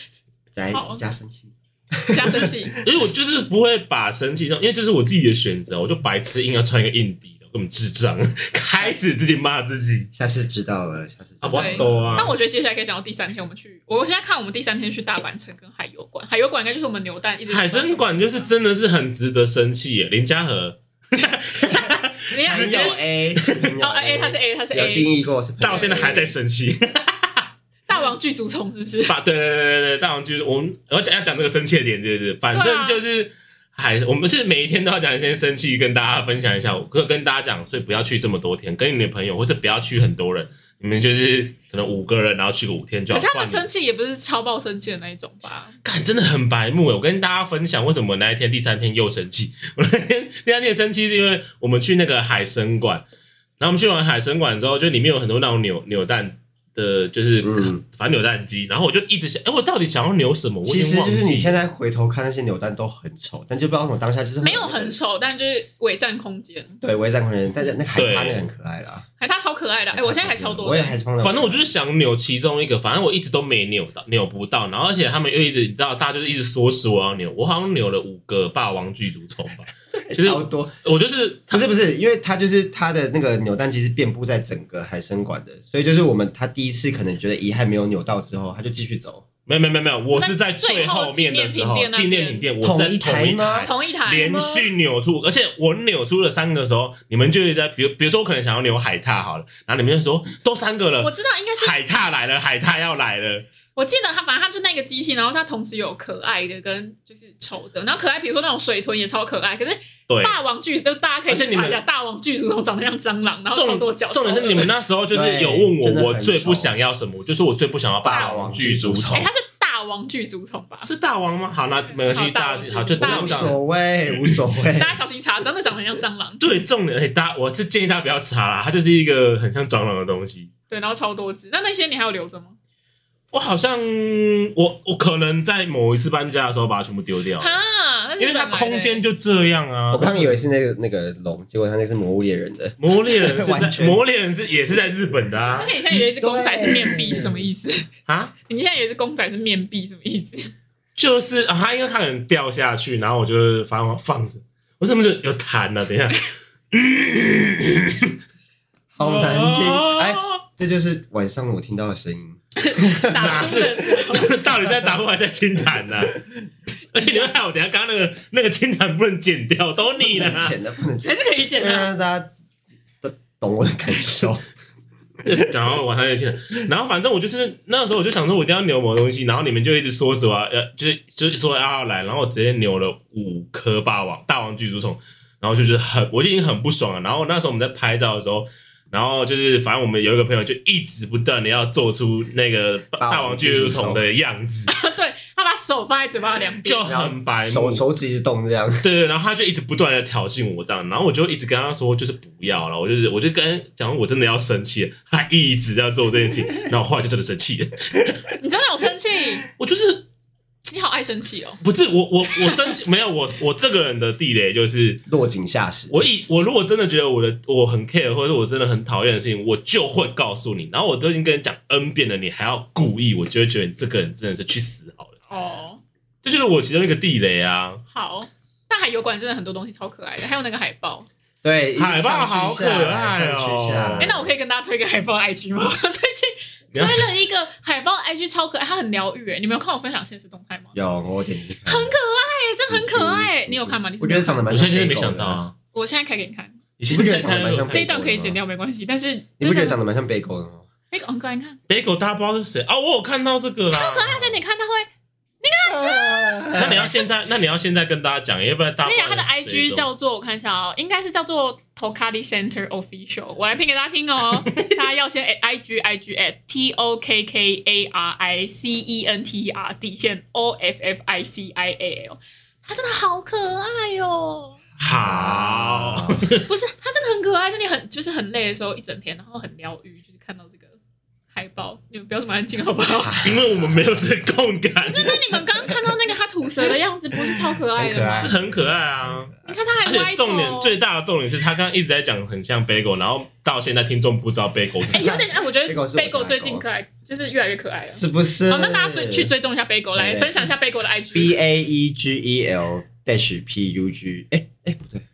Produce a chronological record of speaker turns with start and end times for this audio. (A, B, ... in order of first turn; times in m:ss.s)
0:00.5-0:02.8 A
0:00.7-0:01.0 B
0:02.1-0:02.8 B
0:02.8-0:10.1 C
0:10.1-0:12.2 A
0:11.4-0:12.4 C
0:11.5-0:18.5 B
0:17.5-0:23.7 C
0:22.3-0:23.0 B
0:22.5-0:26.3 A
0:23.8-0:25.1 B
0:25.6-0:27.5 C
0:27.9-0:29.2 B
0:29.1-0:43.7 C
0:32.5-0:33.0 B
0:43.1-0:45.7 B
0:45.8-0:53.0 C
0:53.6-1:01.6 C
0:57.4-0:57.8 A
1:00.7-1:05.0 A
1:04.4-1:06.8 B
1:06.8-1:09.1 A
1:07.9-1:08.4 C
1:09.2-1:11.0 B
1:09.9-1:11.7 A
1:11.2-1:21.7 C
1:19.9-1:20.8 A
1:21.5-1:29.2 A
1:29.5-1:43.5 C
1:30.2-1:32.5 B
1:32.6-1:34.7 A
1:33.6-1:34.4 B
1:41.0-1:42.0 B
1:43.8-1:54.7 B
1:50.1-1:50.4 C
1:51.3-1:51.8 C
1:53.5-1:59.3 C
1:55.1-1:56.7 A
1:58.0-1:59.3 A
1:58.1-1:58.5 B
1:59.1-2:00.9 B
2:00.8-2:03.6 C
2:01.9-2:03.6 B
2:03.0-2:05.0 A
2:04.1-2:04.4 C
2:04.7-2:06.4 B
2:06.4-2:10.5 C
2:10.7-2:12.6 B
2:13.3-2:17.5 C
2:17.4-2:19.0 B
2:18.2-2:20.4 C
2:19.9-2:24.0 A
2:22.8-2:25.7 C
2:25.5-2:27.9 B
2:25.9-2:27.4 A
2:28.1-2:28.3 C
2:28.5-2:30.5 B
2:31.0-2:38.2 C
2:39.0-2:43.7 A
2:39.0-2:40.4 C
2:42.6-2:44.5 B
2:43.2-2:46.2 C
2:46.9-2:50.6 C
2:47.0-2:47.3 B
2:50.0-2:52.3 A
2:51.0-2:51.9 B
2:53.0-2:54.4 A
2:55.2-3:14.7 C
3:13.0-3:14.0 A
3:14.7-3:16.8 B
3:16.6-3:17.8 C
3:16.8-3:18.8 A
3:18.8-3:28.2 C
3:28.4-3:29.4 B
3:29.6-3:30.1 C
3:30.7-3:31.6 B
3:31.6-3:35.0 C
3:35.1-3:36.0 A
3:35.9-3:45.1 C
3:45.3-3:45.8 B
3:46.2-3:47.8 C
3:47.9-3:51.1 B
3:51.4-3:54.3 A
3:51.8-3:54.1 C
3:54.0-4:00.7 B
3:56.7-3:57.3 C
4:00.8-4:02.0 A
4:01.7-4:04.4 B
4:02.7-4:05.4 A
4:04.5-4:05.5 C
4:05.7-4:06.6 B
4:06.8-4:07.8 C
4:06.9-4:08.4 A
4:07.7-4:09.8 B
4:09.4-4:10.7 A
4:10.9-4:11.6 B
4:11.7-4:14.4 C
4:13.7-4:14.9 B
4:15.4-4:16.7 B
4:15.6-4:16.9 A
4:16.5-4:19.8 C
4:18.8-4:34.6 B
4:24.5-4:24.8 C
4:34.8-4:36.4 C
4:34.9-4:36.2 A
4:36.5-4:40.8 B
4:41.3-4:43.2 B
4:43.0-4:43.9 A
4:43.2-4:45.7 C
4:44.9-4:48.4 B
4:47.2-4:48.7 A
4:48.2-4:55.2 C
4:49.4-4:50.8 B
4:54.9-4:56.6 A
4:54.9-5:01.4 B
4:58.0-4:59.3 A
5:00.0-5:00.5 A
5:01.1-5:05.0 A